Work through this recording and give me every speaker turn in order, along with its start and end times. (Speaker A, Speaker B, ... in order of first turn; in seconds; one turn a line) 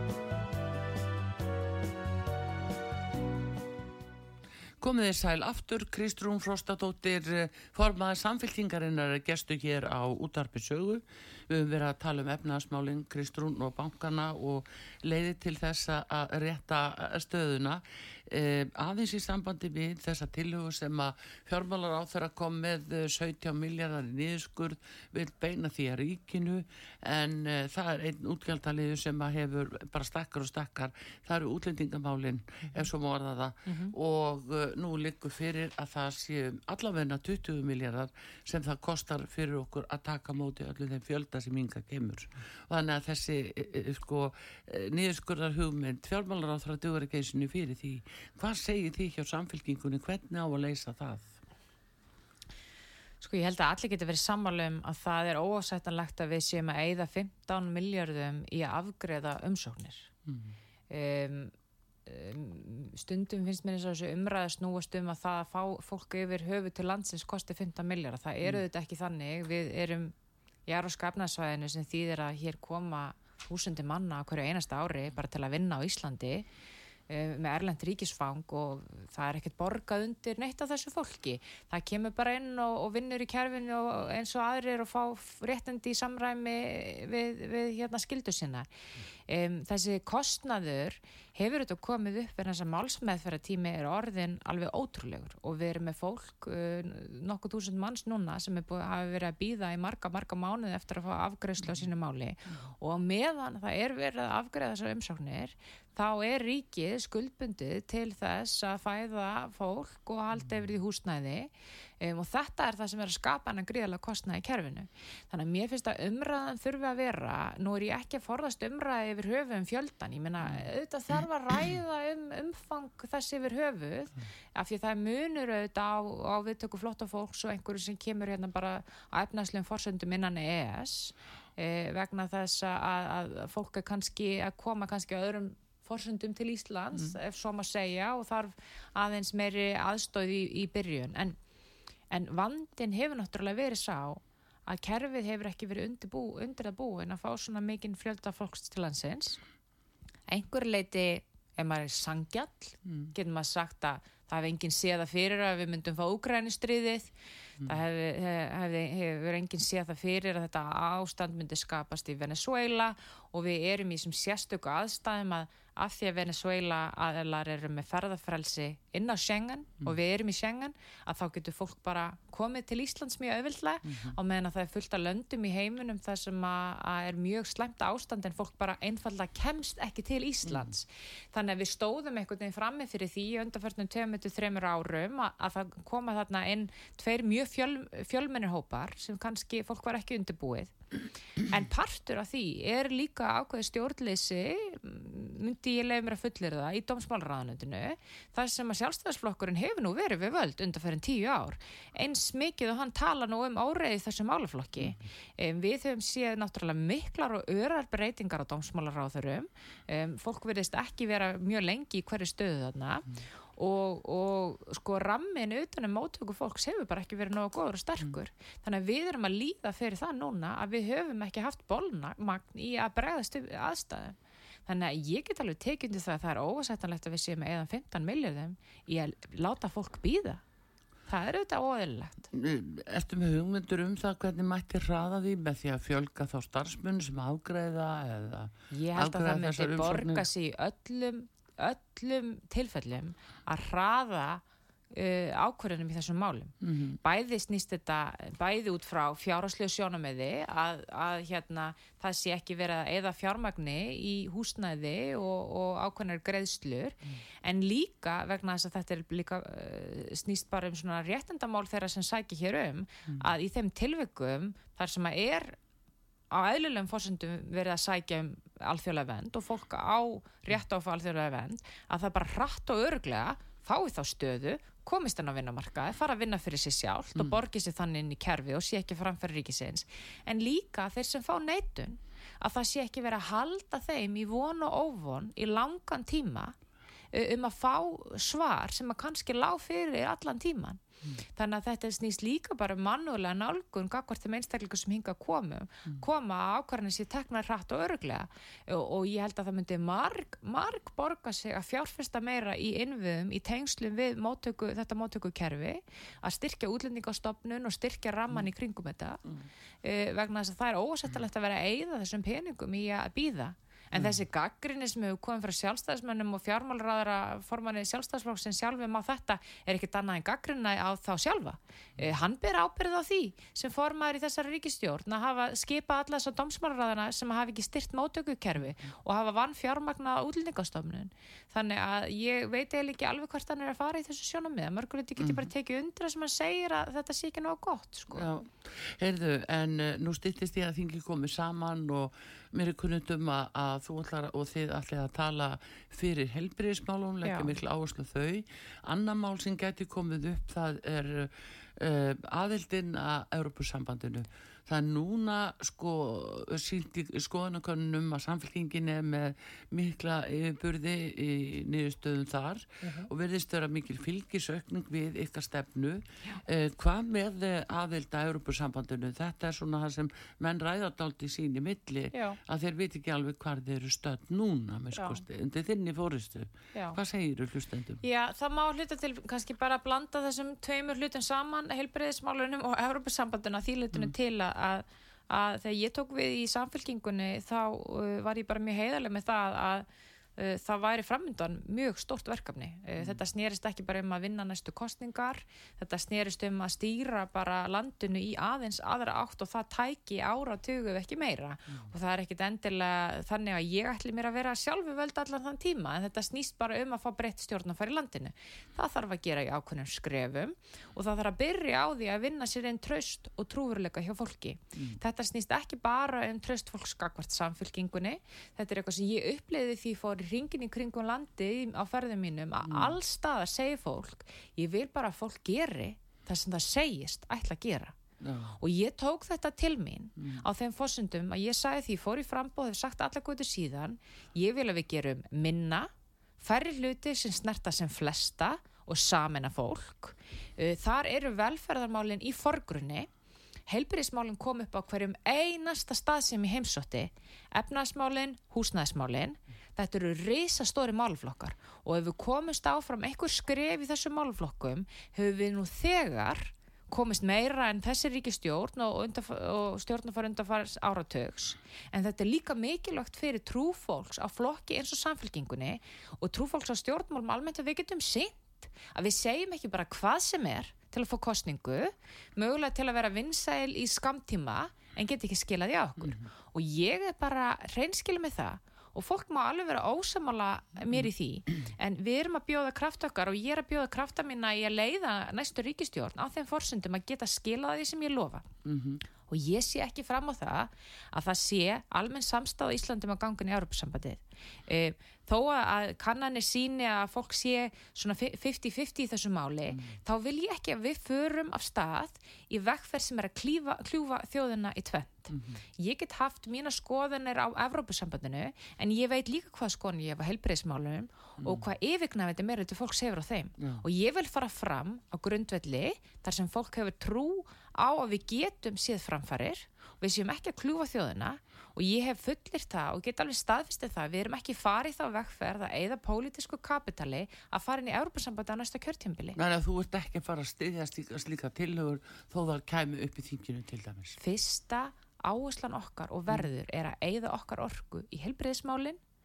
Speaker A: 4.8-51.3
Speaker B: 33.7-33.9
Speaker B: 53.2-60.1
Speaker A: 60.3-60.5
Speaker B: 60.9-61.5
Speaker B: 62.1-70.1
Speaker B: 70.7-76.5
Speaker B: 77.1-88.7
Speaker B: 89.3-141.4
Speaker A: 110.4-110.6
Speaker B: 142.1-149.4
Speaker B: 150.3-157.1
Speaker A: 152.9-153.1
Speaker B: 157.6-190.8
Speaker A: 173.9-174.2
Speaker B: 191.4-230.4
Speaker B: 231.1-232.3
Speaker A: 232.3-240.3
Speaker B: 238.7-265.6
Speaker A: 246.6-247.0
Speaker B: 266.3-286.6
Speaker A: 277.1-277.4
Speaker B: 287.1-309.2
Speaker B: 309.8-338.3
Speaker A: 313.9-314.2
Speaker A: 335.2-335.5
Speaker A: 338.1-378.0
Speaker B: 347.2-347.5
Speaker B: 362.8-363.1
Speaker B: 372.1-372.4
Speaker B: 375.0-375.2
Speaker B: 376.7-377.0
Speaker B: 378.0-428.0
Speaker A: 422.7-423.0
Speaker A: 428.2-428.6
Speaker B: 428.6-443.1
Speaker A: 430.2-430.4
Speaker B: 443.7-488.5
Speaker A: 488.6-489.0
Speaker B: 489.3-529.4
Speaker A: 499.7-500.0
Speaker A: 505.3-505.6
Speaker A: 511.4-511.7
Speaker A: 513.6-513.8
Speaker A: 529.4-534.2
Speaker B: 534.2-539.0